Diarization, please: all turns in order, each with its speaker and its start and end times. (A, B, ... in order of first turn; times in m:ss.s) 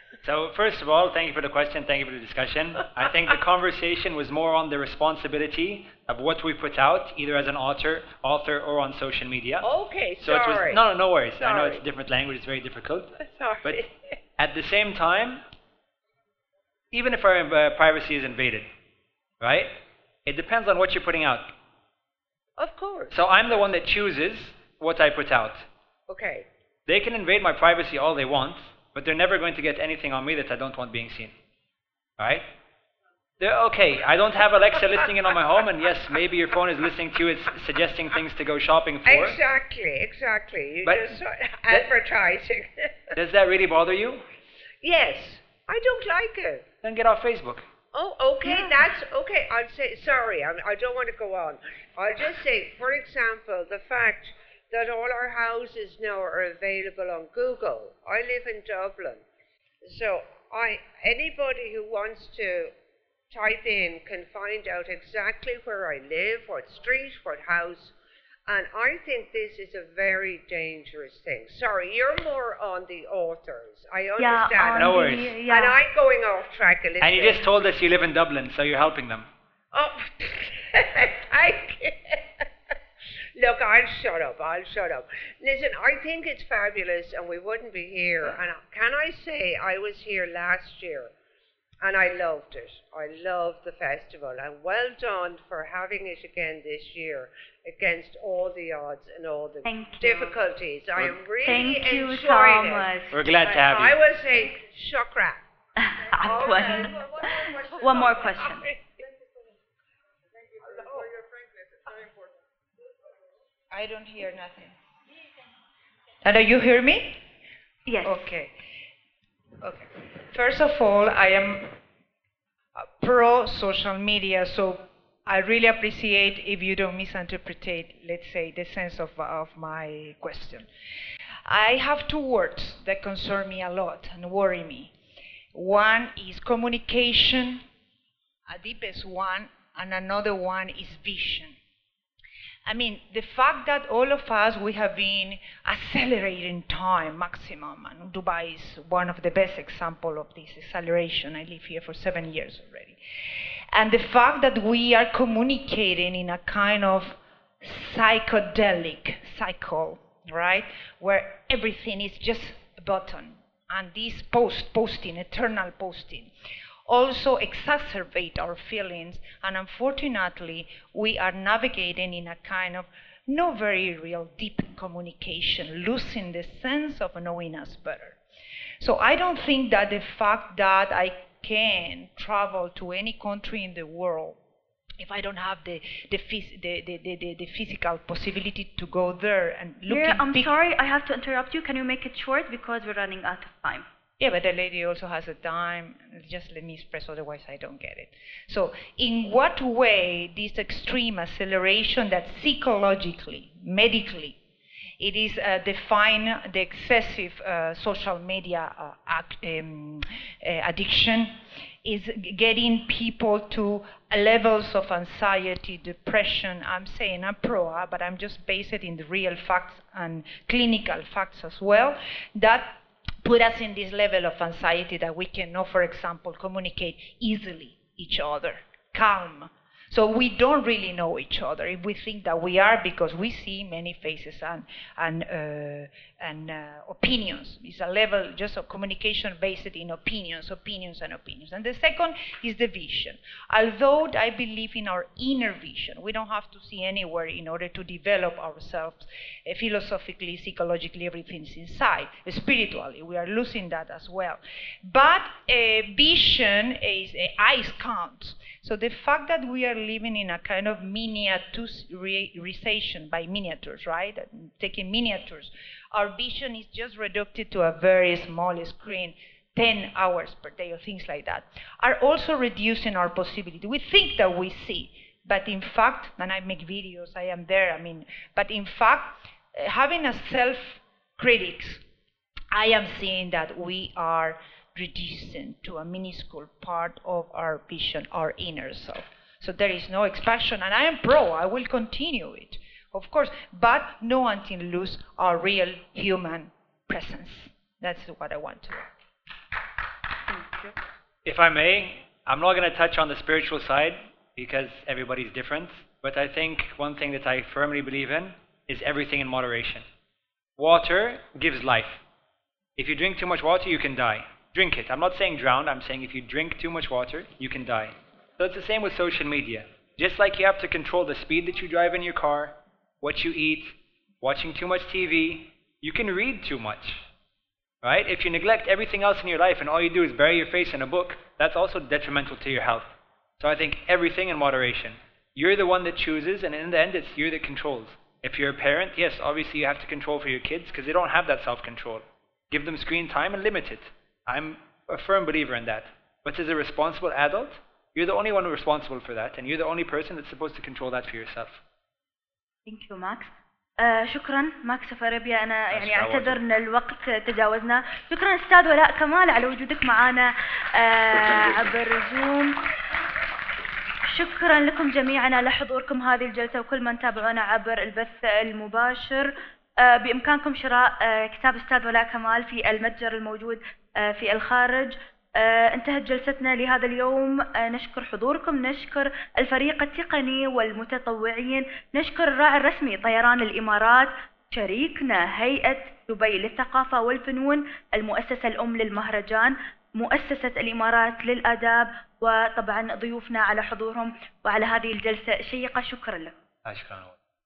0:00.2-0:09.7 A
0:09.6-0:10.8 B
0:10.2-0:15.4 A
0:11.4-0:11.8 B
0:13.2-0:14.1 B
0:16.9-0:18.7 A
0:19.4-0:19.7 A
0:20.2-0:21.5 A
0:22.6-0:23.2 B
0:23.1-0:25.7 A
0:26.1-0:26.5 B
0:26.9-0:31.3 A
0:32.2-0:32.4 A
0:33.4-0:39.4 A
0:39.0-0:43.1 B
0:40.8-0:41.9 A
0:43.2-0:44.2 A
0:44.8-0:46.6 B
0:46.8-0:47.6 A
0:47.9-0:59.2 B
0:48.4-0:48.7 C
0:59.8-1:02.7 B
1:03.3-1:07.9 B
1:08.5-1:17.4 B
1:14.2-1:15.8 C
1:14.7-1:15.3 A
1:17.0-1:19.3 A
1:19.7-1:22.4 B
1:23.4-1:31.1 B
1:31.8-1:45.4 B
1:39.6-1:40.4 C
1:41.4-1:43.1 C
1:43.1-1:44.0 A
1:45.8-1:48.7 C
1:46.0-1:48.9 B
1:50.6-1:51.2 B
1:53.7-1:54.8 D
1:56.2-1:57.2 D
1:57.9-1:58.3 C
1:58.0-1:58.5 D
1:59.6-2:01.7 D
2:02.8-2:10.7 D
2:11.4-2:14.9 D
2:15.5-2:17.6 D
2:18.5-2:21.6 D
2:22.6-2:33.0 D
2:33.7-2:46.3 D
2:46.9-2:58.2 D
2:58.8-3:04.4 D
3:05.0-3:10.5 D
3:09.9-3:13.8 C
3:14.2-3:24.4 D
3:25.0-4:41.8 D
4:42.5-4:58.9 D
5:01.2-5:09.8 A
5:10.6-5:12.0 A
5:12.8-5:27.0 A
5:27.8-5:32.9 A
5:33.4-5:51.6 A
5:52.7-6:02.5 C
5:55.7-5:56.4 A
6:04.0-6:36.3 C
6:36.6-6:37.2 A